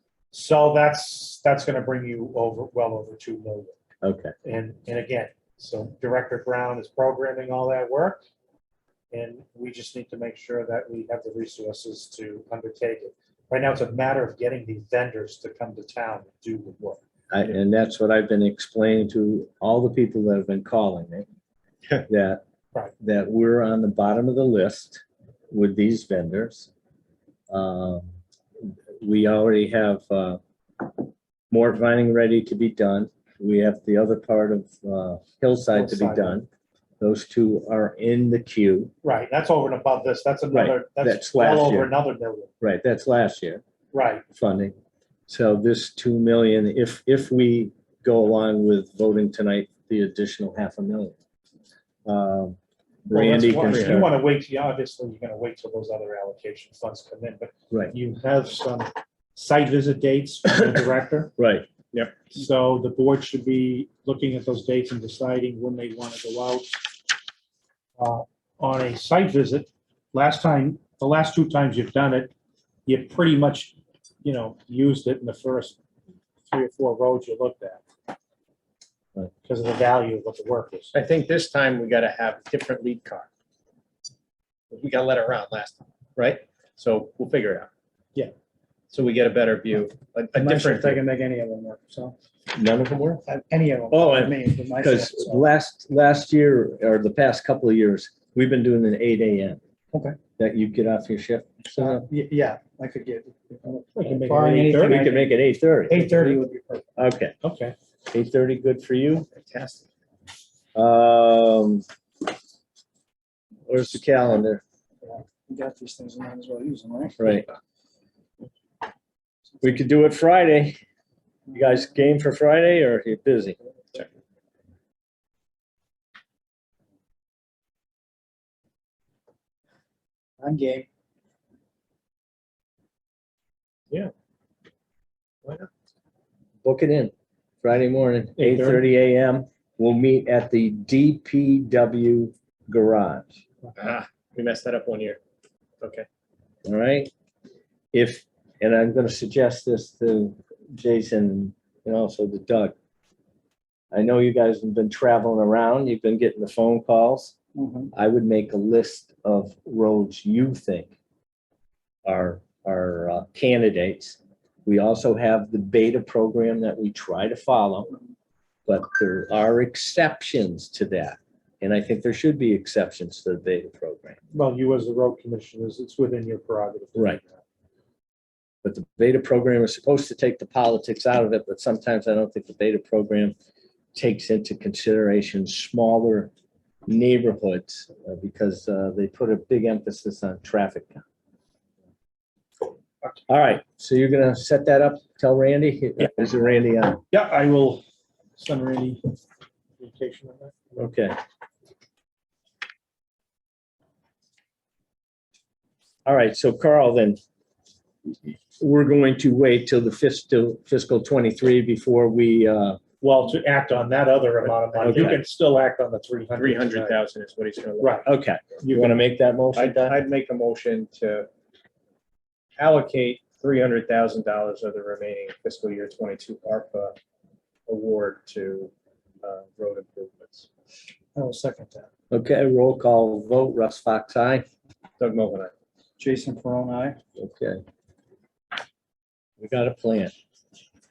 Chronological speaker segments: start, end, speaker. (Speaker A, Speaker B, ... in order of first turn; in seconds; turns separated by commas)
Speaker A: 0.3-3.8, Speaker B: 4.0-4.3, Speaker A: 4.4-8.2, Speaker A: 9.1-17.0, Speaker B: 17.3-21.3, Speaker B: 22.1-22.4, Speaker B: 23.0-26.7, Speaker B: 27.5-28.1, Speaker B: 28.6-36.5, Speaker A: 35.7-36.4, Speaker B: 37.0-38.9, Speaker A: 39.0-42.5, Speaker B: 40.5-41.9, Speaker B: 42.6-43.6, Speaker A: 43.9-44.2, Speaker B: 44.4-44.7, Speaker B: 45.3-51.1, Speaker B: 52.0-54.1, Speaker A: 53.1-61.3, Speaker C: 53.6-54.0, Speaker B: 61.4-61.7, Speaker A: 62.3-66.8, Speaker A: 68.0-72.3, Speaker A: 72.8-75.8, Speaker A: 76.5-77.8, Speaker A: 79.4-80.9, Speaker C: 80.9-83.3, Speaker C: 84.7-87.7, Speaker C: 88.9-91.0, Speaker D: 90.3-92.2, Speaker B: 92.5-93.2, Speaker D: 93.3-95.4, Speaker B: 93.9-99.6, Speaker D: 99.9-100.2, Speaker B: 100.4-102.0, Speaker D: 101.8-105.3, Speaker A: 104.0-105.1, Speaker B: 104.8-106.1, Speaker D: 105.9-106.8, Speaker A: 105.9-106.4, Speaker B: 107.0-107.3, Speaker A: 107.4-107.7, Speaker B: 108.1-109.3, Speaker C: 109.3-109.8, Speaker B: 110.7-111.8, Speaker B: 113.7-114.6, Speaker D: 115.0-117.2, Speaker B: 117.2-117.5, Speaker B: 119.6-120.8, Speaker B: 121.5-123.6, Speaker D: 130.4-130.9, Speaker C: 135.4-135.7, Speaker B: 136.6-143.3, Speaker A: 138.4-138.8, Speaker C: 143.7-145.2, Speaker C: 145.8-146.1, Speaker B: 146.6-147.1, Speaker B: 147.9-152.7, Speaker B: 153.9-157.3, Speaker D: 157.6-157.9, Speaker B: 157.9-160.9, Speaker B: 162.0-167.9, Speaker B: 168.7-174.2, Speaker A: 174.3-177.4, Speaker B: 178.6-183.3, Speaker B: 183.9-186.3, Speaker B: 186.9-191.0, Speaker B: 193.3-197.0, Speaker A: 197.1-197.8, Speaker A: 198.4-199.0, Speaker A: 199.8-200.6, Speaker B: 200.8-201.2, Speaker B: 206.1-207.2, Speaker B: 208.3-212.8, Speaker A: 213.0-217.0, Speaker B: 214.8-215.2, Speaker C: 216.3-218.1, Speaker A: 217.8-218.1, Speaker B: 218.1-220.0, Speaker A: 218.6-219.0, Speaker C: 219.5-221.3, Speaker C: 222.6-226.9, Speaker C: 227.7-228.7, Speaker C: 229.2-230.5, Speaker D: 231.1-231.9, Speaker B: 232.1-234.4, Speaker C: 235.0-235.5, Speaker D: 236.0-237.0, Speaker B: 237.2-237.6, Speaker B: 239.4-240.1